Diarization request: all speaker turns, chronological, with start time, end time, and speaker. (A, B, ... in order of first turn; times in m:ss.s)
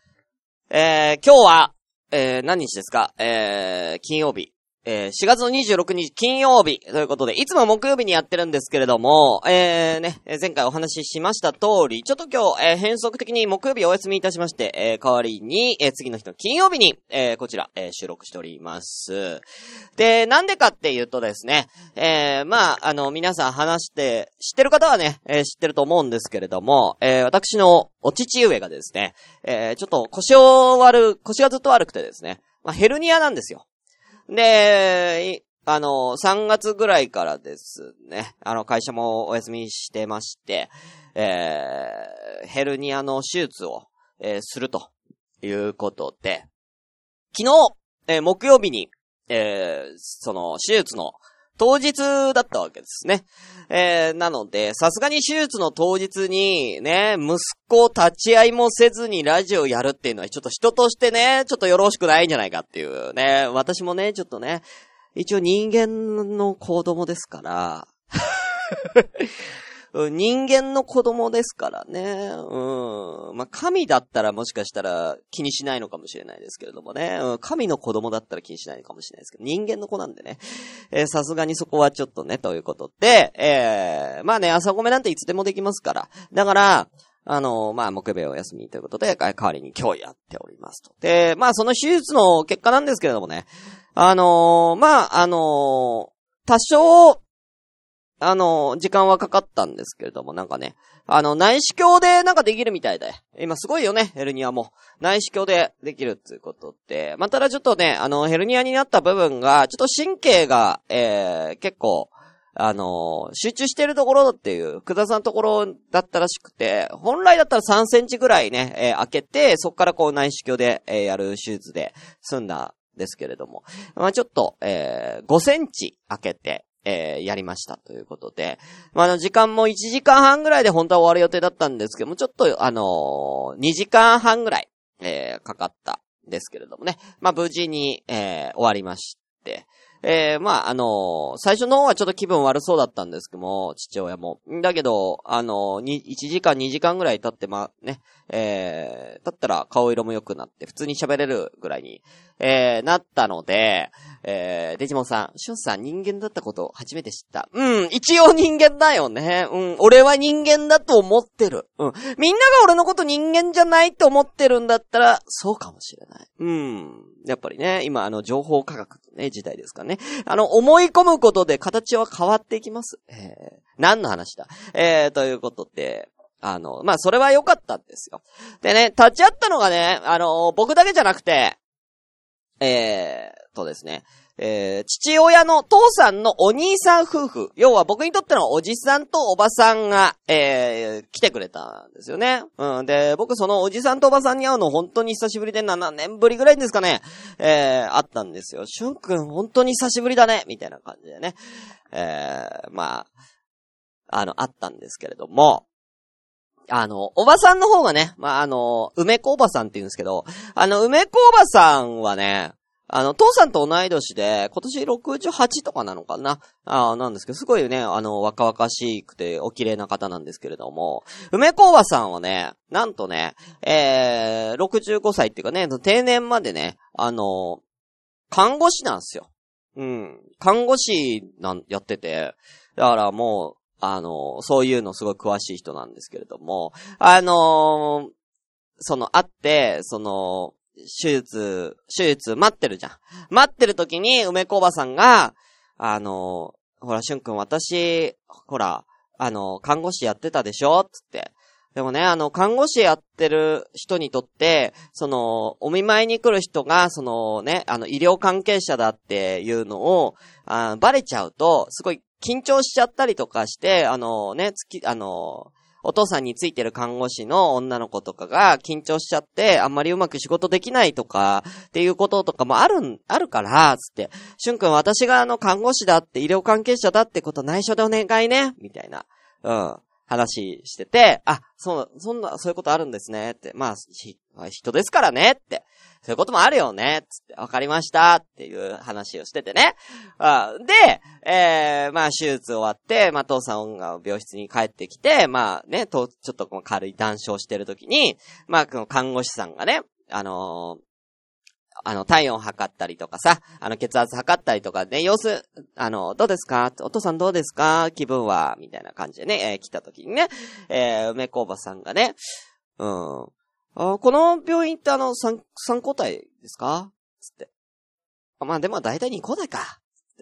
0:00.7-0:19.4 A
0:20.0-0:33.6 A
0:34.3-0:44.9 A
0:45.4-0:46.5 A
0:47.3-1:04.6 A
1:05.2-1:07.9 A
1:09.0-1:09.3 A
1:09.9-1:20.4 A
1:20.9-1:37.2 A
1:38.2-3:01.6 A
3:02.6-3:21.4 A
3:21.9-3:23.1 A
3:24.1-3:25.6 A
3:26.7-3:47.6 A
3:48.3-3:58.1 A
3:58.8-5:00.8 A
5:01.9-5:12.2 A
5:12.8-5:17.5 A
5:18.4-5:19.8 A